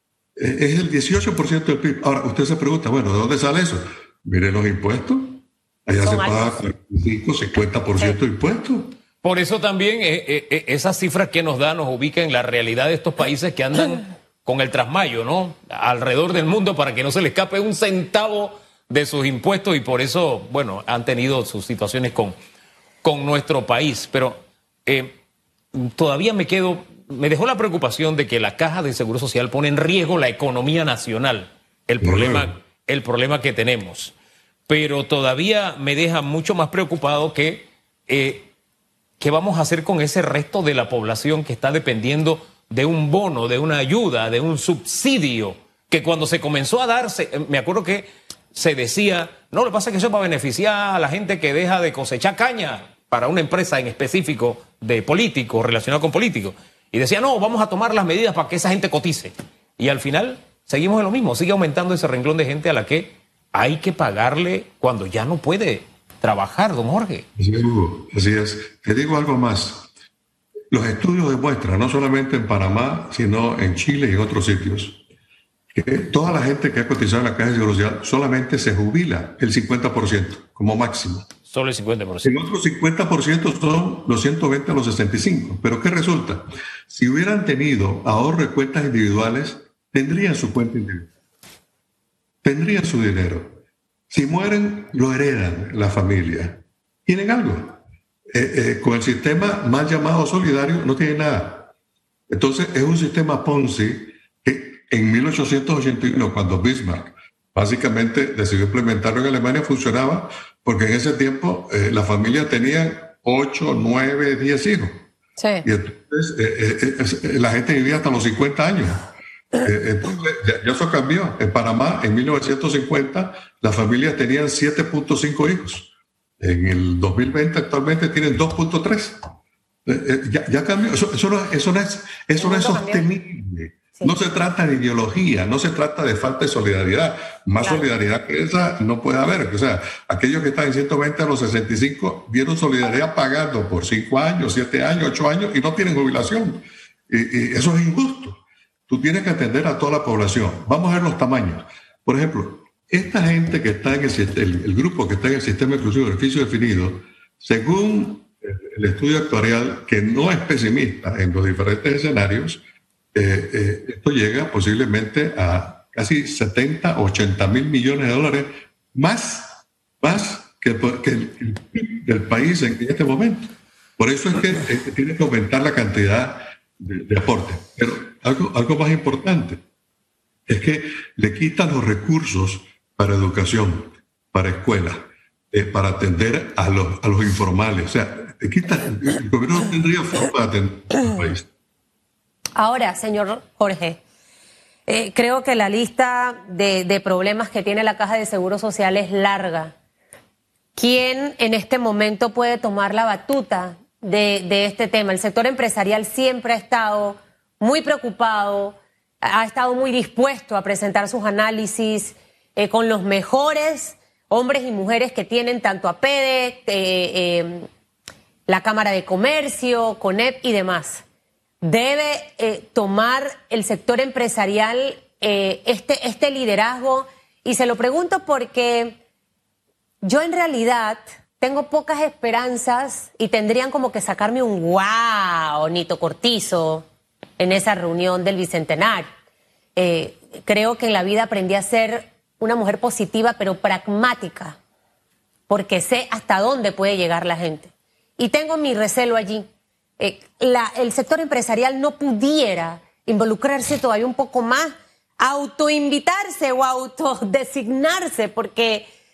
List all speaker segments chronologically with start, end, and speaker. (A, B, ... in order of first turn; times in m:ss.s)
0:00.4-0:09.0 A
0:06.0-0:06.6 B
0:09.2-0:22.4 C
0:23.0-0:25.2 C
0:25.7-0:34.1 C
0:32.0-0:32.5 A
0:34.7-0:38.5 C
0:39.2-1:07.3 C
1:07.4-1:09.9 A
1:10.7-1:15.0 A
1:15.7-1:21.3 A
1:21.5-1:22.3 C
1:22.2-1:31.1 A
1:32.4-1:41.7 A
1:42.3-1:55.0 A
1:55.4-1:55.7 B
1:55.6-1:59.0 A
1:59.6-2:09.2 A
2:09.9-2:42.6 A
2:12.4-2:13.1 B
2:43.1-2:59.6 A
3:00.5-3:11.5 A
3:12.6-3:14.0 B
3:14.9-3:19.7 B
3:20.8-3:37.7 B
3:38.5-3:41.0 B
3:41.6-3:49.0 B
3:50.0-3:56.9 B
3:57.4-3:59.1 B
3:59.8-4:04.6 B
4:05.5-4:09.5 B
4:10.0-4:18.9 B